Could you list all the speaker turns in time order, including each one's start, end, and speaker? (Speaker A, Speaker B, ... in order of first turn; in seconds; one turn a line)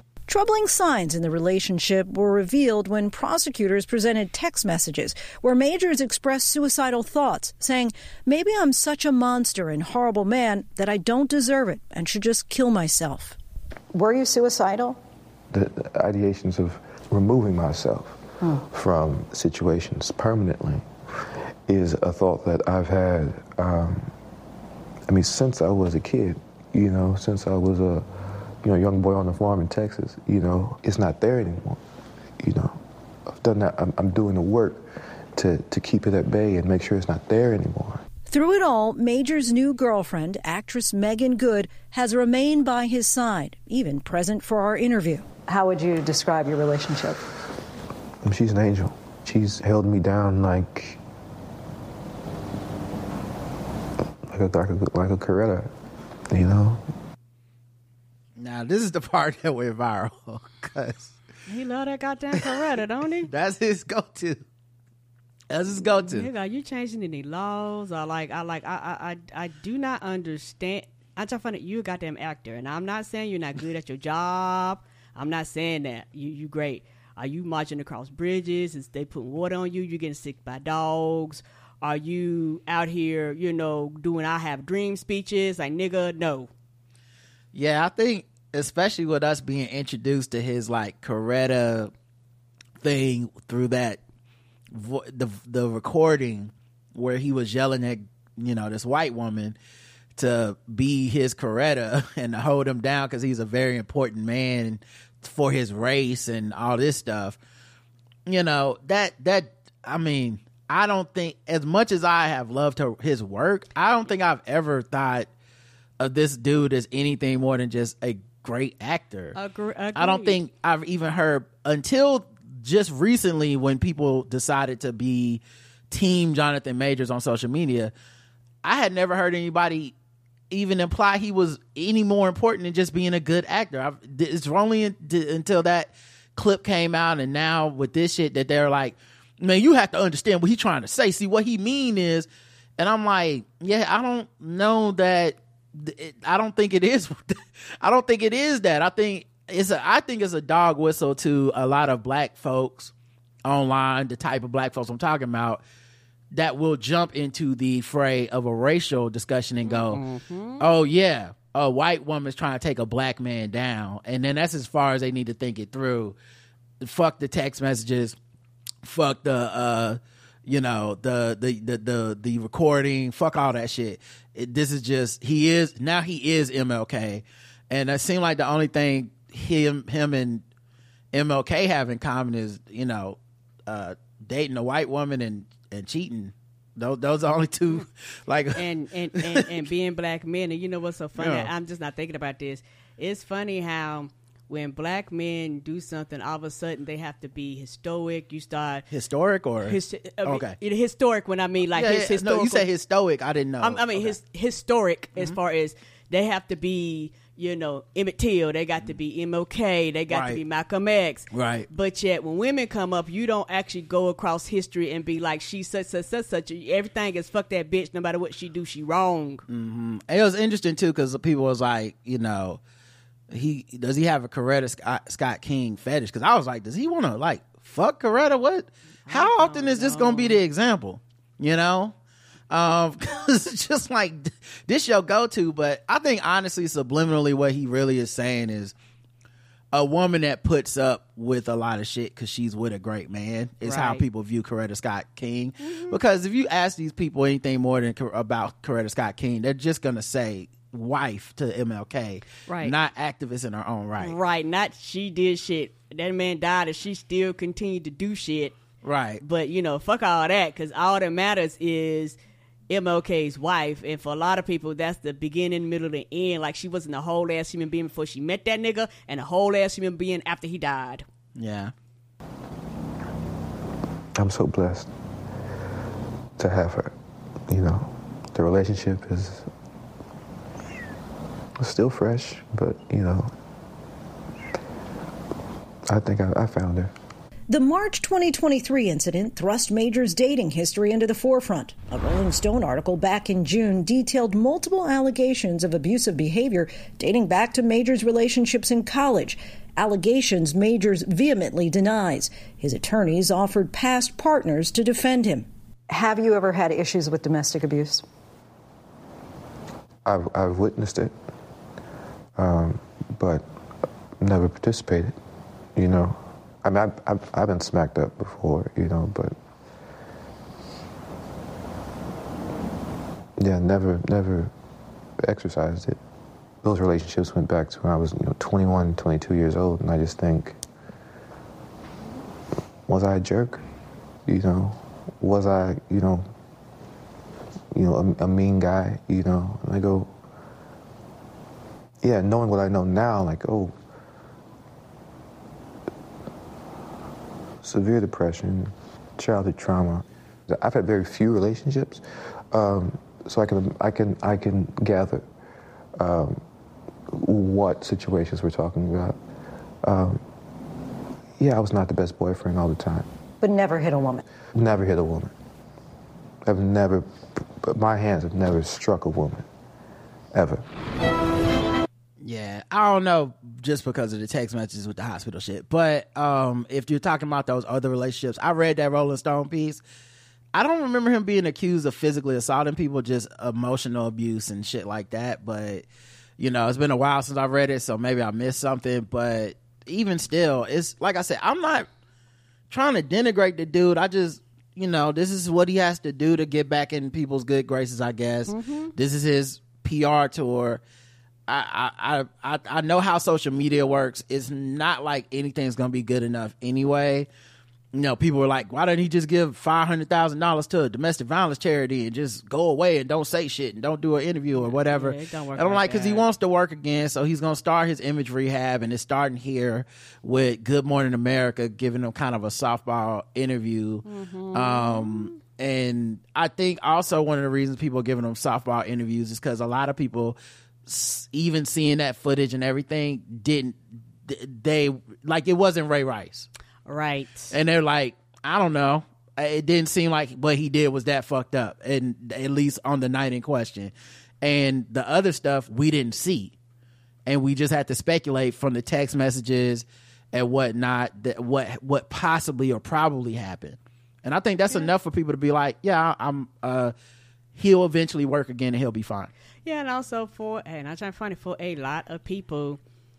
Speaker A: 0.3-13.4
Speaker B: 13.9-15.0
Speaker C: 15.5-20.9
Speaker C: 21.7-24.1
Speaker C: 25.1-31.8
Speaker C: 32.4-38.0
Speaker A: 38.3-45.2
Speaker B: 45.5-47.2
Speaker C: 48.2-51.0
Speaker C: 54.3-55.7
Speaker C: 56.3-56.9
Speaker D: 58.4-61.1
Speaker E: 61.5-63.3
Speaker D: 63.3-64.4
Speaker D: 65.5-66.3
Speaker E: 65.8-86.5
Speaker D: 87.5-91.9
Speaker D: 92.8-94.0
Speaker D: 94.7-99.6
Speaker D: 100.2-107.4
Speaker D: 108.3-115.3
Speaker D: 116.0-119.4
Speaker E: 119.3-120.4
Speaker D: 120.0-127.9
Speaker D: 128.6-129.9
Speaker D: 130.5-152.9
Speaker D: 153.4-155.6
Speaker D: 156.3-160.0
Speaker E: 159.6-160.7
Speaker D: 160.6-166.2
Speaker D: 166.8-168.2
Speaker D: 168.8-180.4
Speaker D: 181.1-188.6
Speaker E: 188.6-198.8
Speaker D: 189.2-189.5
Speaker D: 191.2-191.5
Speaker D: 198.9-200.6
Speaker E: 199.7-202.7
Speaker D: 201.7-204.2
Speaker E: 203.6-219.4
Speaker D: 210.1-210.4
Speaker D: 211.3-211.7
Speaker D: 219.5-222.6
Speaker D: 223.3-231.9
Speaker E: 229.1-230.4
Speaker D: 232.5-238.7
Speaker D: 239.7-254.2
Speaker E: 243.6-244.0
Speaker E: 245.7-246.0
Speaker E: 252.5-252.8
Speaker E: 254.0-258.6
Speaker D: 258.8-259.2
Speaker E: 259.2-262.2
Speaker E: 262.7-271.1
Speaker D: 271.4-271.7
Speaker C: 274.1-274.9
Speaker C: 276.4-276.9
Speaker C: 277.5-279.5
Speaker C: 281.6-283.3
Speaker C: 285.9-286.9
Speaker A: 287.5-305.5
Speaker B: 305.9-308.0
Speaker C: 310.1-311.1
Speaker C: 312.4-313.5
Speaker C: 314.2-315.2
Speaker C: 315.8-319.4
Speaker C: 323.4-324.5
Speaker C: 325.2-326.0
Speaker C: 326.6-330.6
Speaker C: 332.9-333.6
Speaker C: 334.3-336.3
Speaker C: 337.7-340.1
Speaker C: 342.0-343.8
Speaker C: 347.6-355.3
Speaker C: 356.0-356.4
Speaker C: 357.1-359.2
Speaker C: 359.8-360.2
Speaker C: 361.4-363.1
Speaker B: 363.4-364.2
Speaker C: 364.6-365.3
Speaker C: 366.4-369.5
Speaker C: 370.3-370.7
Speaker D: 372.2-379.8
Speaker D: 380.5-385.9
Speaker D: 386.4-391.9
Speaker D: 392.7-400.8
Speaker E: 398.5-398.9
Speaker D: 401.5-407.3
Speaker D: 407.9-436.5
Speaker E: 414.5-416.3
Speaker E: 424.1-425.3
Speaker E: 436.9-437.5
Speaker D: 437.5-446.5
Speaker D: 447.3-456.9
Speaker D: 457.6-459.3
Speaker E: 459.6-462.8